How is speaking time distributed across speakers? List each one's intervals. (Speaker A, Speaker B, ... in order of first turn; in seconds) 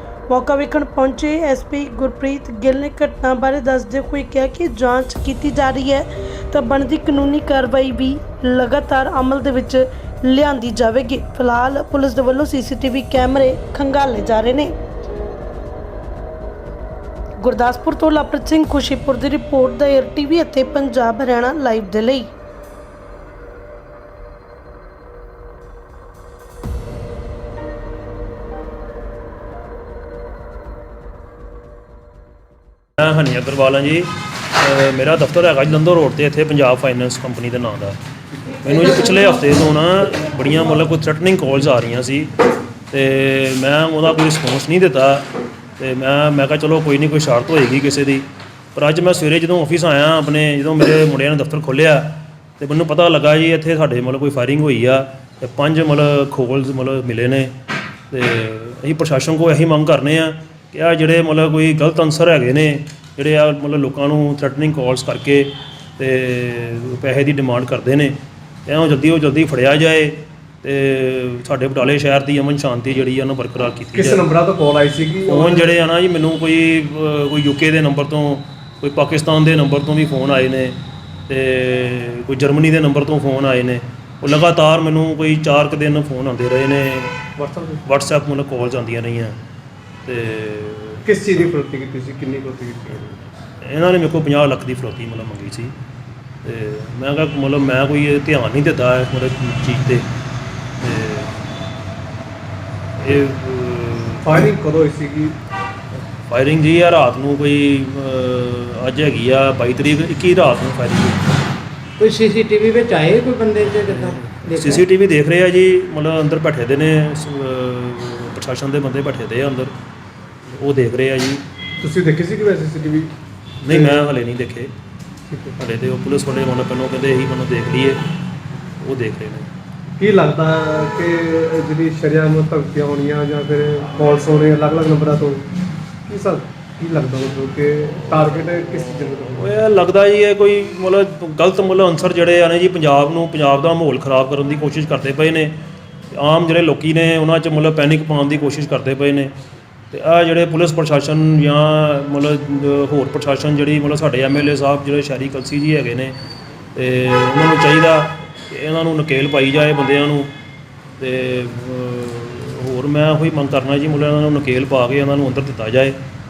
Speaker A: 0.3-14.7, 17.4-22.3
Speaker B: 33.0-38.0, 38.6-42.3, 42.9-45.2, 45.8-57.5, 58.1-74.2, 75.3-80.8, 81.3-87.2, 87.8-89.4, 90.0-91.0, 93.6-95.7, 96.4-100.1, 100.8-101.3, 103.0-104.3, 106.3-111.3, 113.8-119.7, 120.5-121.4, 123.6-124.7, 125.6-128.0, 128.8-129.5, 138.8-145.5, 146.1-149.3, 149.9-156.1, 156.7-160.3, 161.0-166.0
Speaker C: 73.9-75.7, 87.4-87.8, 91.0-93.1, 104.2-105.3, 121.8-124.0, 125.3-125.6, 130.0-135.4, 136.1-139.5
Speaker D: 112.0-114.8